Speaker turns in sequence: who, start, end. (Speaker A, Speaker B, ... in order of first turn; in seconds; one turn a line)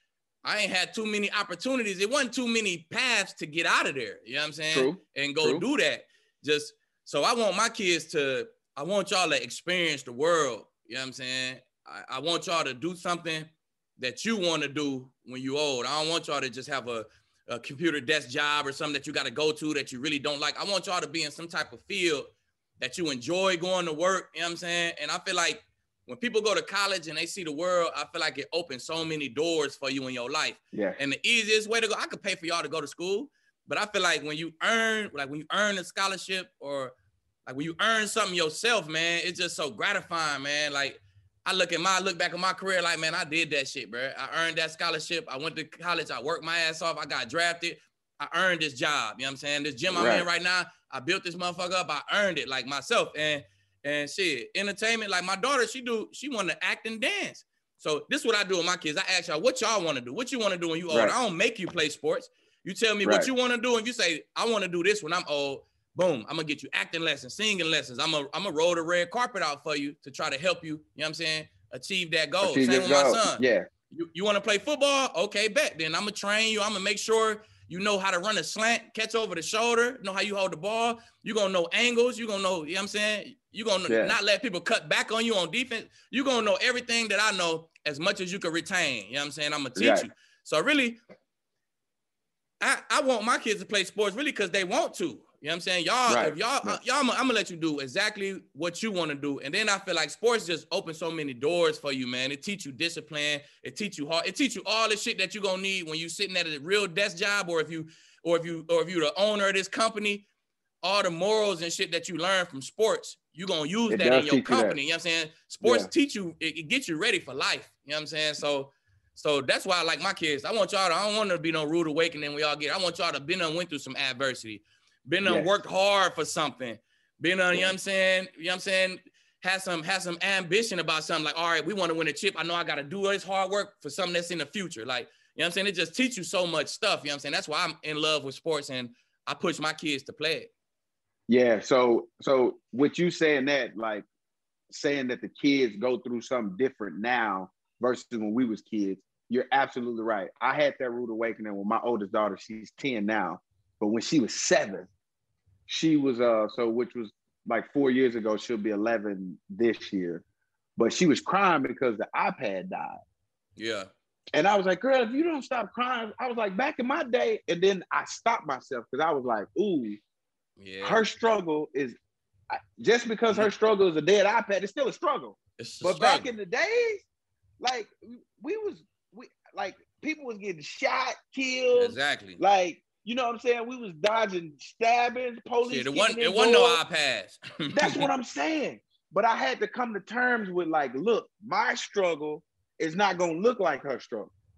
Speaker A: 0.4-22.3
Speaker B: 4.7-5.6
Speaker A: 22.8-36.9
Speaker B: 30.7-31.0
Speaker A: 37.5-91.0
Speaker B: 49.9-50.3
Speaker B: 60.9-61.1
Speaker B: 63.0-63.3
Speaker B: 72.4-73.7
Speaker B: 83.9-84.2
Speaker B: 89.8-90.1
Speaker A: 92.6-110.2
Speaker B: 96.1-96.8
Speaker A: 110.8-140.5
Speaker B: 113.9-114.8
Speaker B: 115.6-115.9
Speaker B: 141.3-144.1
Speaker B: 144.7-154.9
Speaker B: 155.7-160.2
Speaker B: 160.8-163.0
Speaker A: 163.6-163.9
Speaker B: 164.3-170.0
Speaker A: 170.6-171.0
Speaker B: 170.8-172.0
Speaker B: 172.5-177.0
Speaker A: 175.6-176.3
Speaker B: 177.6-186.8
Speaker A: 181.8-182.4
Speaker A: 185.7-188.1
Speaker B: 187.7-194.3